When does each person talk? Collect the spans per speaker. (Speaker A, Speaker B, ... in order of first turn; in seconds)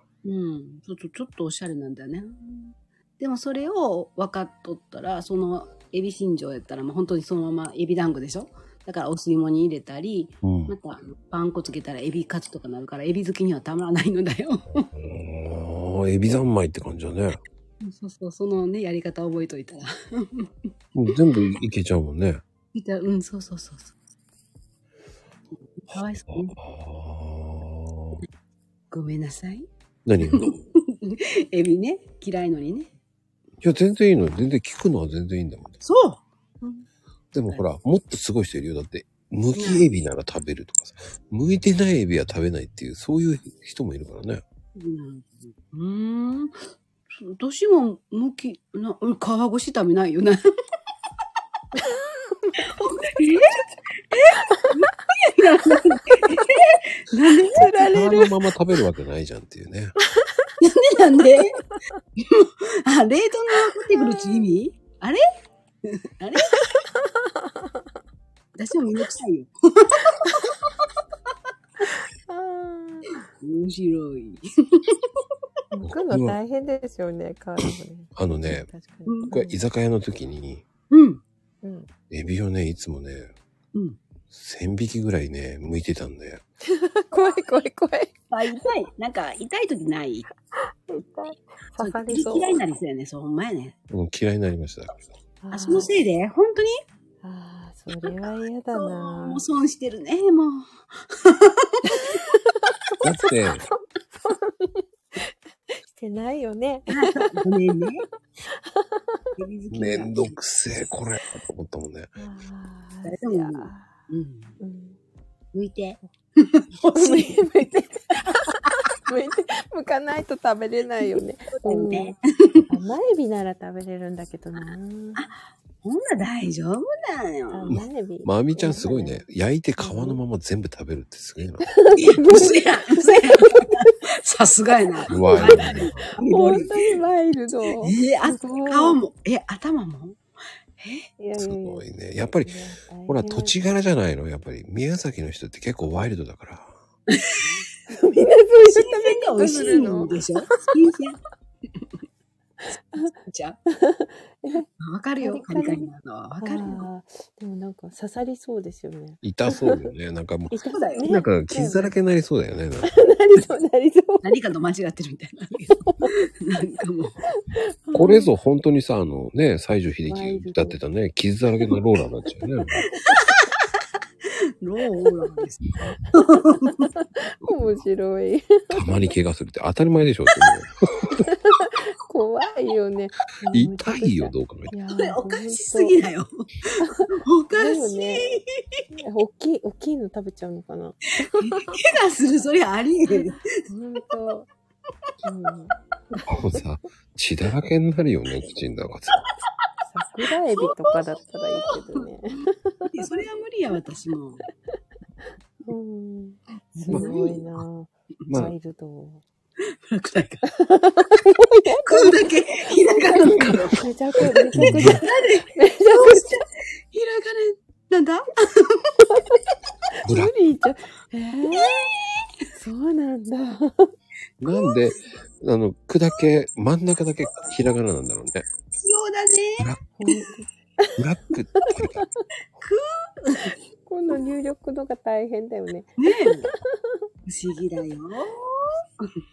Speaker A: 0.2-14.9, 17.8-20.5, 22.7-24.0, 25.6-26.6, 28.9-29.7, 30.2-32.9, 35.8-36.9, 39.5-39.9, 44.7-46.6, 47.1-50.4, 52.5-57.6, 60.6-61.6, 62.1-65.2, 65.8-66.7, 68.5-70.5, 73.4-75.2, 79.1-79.3, 80.9-81.2, 88.3-90.3, 91.8-93.8, 95.5-96.7, 98.0-101.9, 106.9-108.0, 109.4-110.3, 113.0-114.5, 115.5-117.5, 121.0-122.7, 124.6-127.7, 131.9-137.0, 137.8-140.2, 140.8-141.1, 147.1-147.5, 148.2-151.2, 153.0-153.6, 154.8-156.9, 160.7-161.1, 164.2-167.2, 173.1-173.4, 174.6-176.9, 184.9-188.8, 191.3-193.6, 200.5-202.0, 202.9-204.4, 206.7-207.4, 209.7-210.5, 211.8-219.1, 221.5-222.3, 224.5-224.8, 228.7-230.1, 232.6-233.6, 236.0-236.5, 237.2-239.2
Speaker B: 10.4-10.7, 14.8-17.4, 20.9-22.4, 25.9-28.2, 30.0-30.6, 33.6-35.8, 37.3-44.4, 57.5-60.0, 75.8-76.4, 78.2-78.7, 79.3-80.6, 82.1-83.3, 84.3-86.4, 93.9-95.0, 103.0-103.7, 109.7-112.2, 127.7-131.7, 135.1-136.1, 141.3-146.8, 159.2-162.9, 167.9-172.8, 178.7-181.2, 183.5-184.7, 196.3-199.2, 208.3-208.5, 214.5-215.0, 220.0-220.3, 224.4-228.5, 229.6-229.8, 231.0-232.0
Speaker C: 57.5-58.3, 60.2-60.5, 63.9-64.5, 66.5-66.8, 72.3-73.1, 75.7-79.6, 81.6-81.9, 86.7-88.1, 90.5-92.6, 95.4-95.9, 97.2-99.4, 101.9-102.7, 104.3-104.8, 105.8-107.4, 108.5-109.3, 112.2-113.9, 114.6-115.0, 116.9-122.1, 122.7-125.3, 127.5-129.2, 129.8-130.2, 131.7-133.9, 135.1-139.0, 141.2-141.8, 142.4-143.6, 147.9-150.7, 153.7-154.7, 155.2-155.9, 156.4-159.9, 160.5-161.9, 162.8-164.3, 165.9-166.1, 167.3-168.3, 170.1-170.8, 176.6-178.9, 181.2-186.0, 186.8-188.3, 188.9-191.8, 193.1-194.5, 195.2-195.7, 199.8-203.1, 205.7-209.2, 210.5-212.2, 213.3-216.3, 219.9-221.9, 222.5-223.9, 230.0-231.0, 231.6-232.2, 233.8-236.7